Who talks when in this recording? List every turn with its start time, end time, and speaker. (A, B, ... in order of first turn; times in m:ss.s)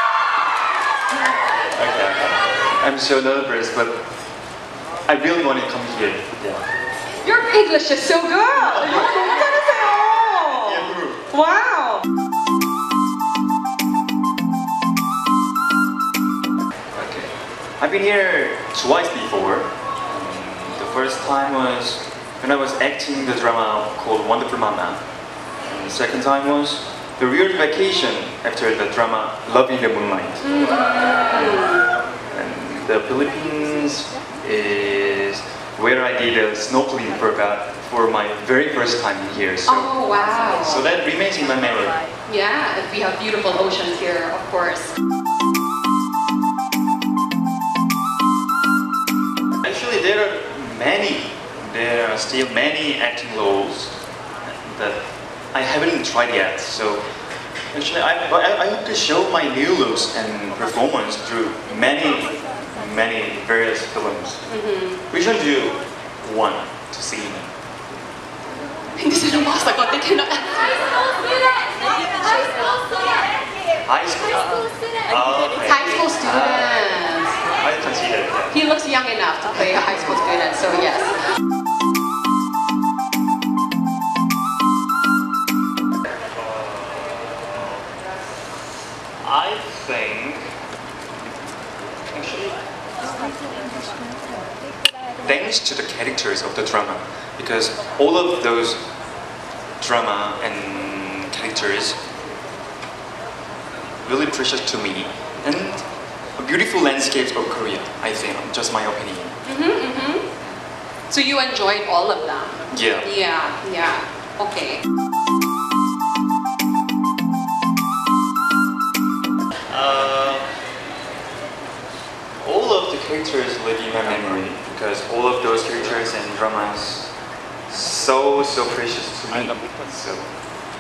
0:01.8-0:04.0 A
0:05.1-0:06.6 A
0:07.2-0:12.0 B
0:08.7-0:11.2 A
0:16.9-0:25.0 A
0:25.6-0:30.5 A
0:30.4-0:31.8 B
0:31.3-0:31.7 A
0:32.3-0:40.0 A
0:39.7-0:40.9 B
0:40.5-0:42.0 A
0:42.3-0:45.0 B
0:49.6-0:57.0 A
0:57.7-1:04.4 A
1:04.5-1:05.0 B
1:05.1-1:07.5 A
1:09.0-1:10.8 B
1:13.9-1:17.0 A
1:15.5-1:17.4 B
1:17.6-1:18.6 A
1:18.5-1:21.2 B
1:26.4-1:27.8 A
1:29.2-1:30.6 A
1:32.1-1:32.6 A
1:35.2-1:38.9 A
1:39.8-1:42.0 A
1:44.0-1:49.4 A
1:49.4-1:50.3 B
1:51.1-1:54.8 B
1:52.7-1:53.1 A
1:59.7-2:00.5 A
2:02.4-2:07.1 A
2:07.7-2:10.3 A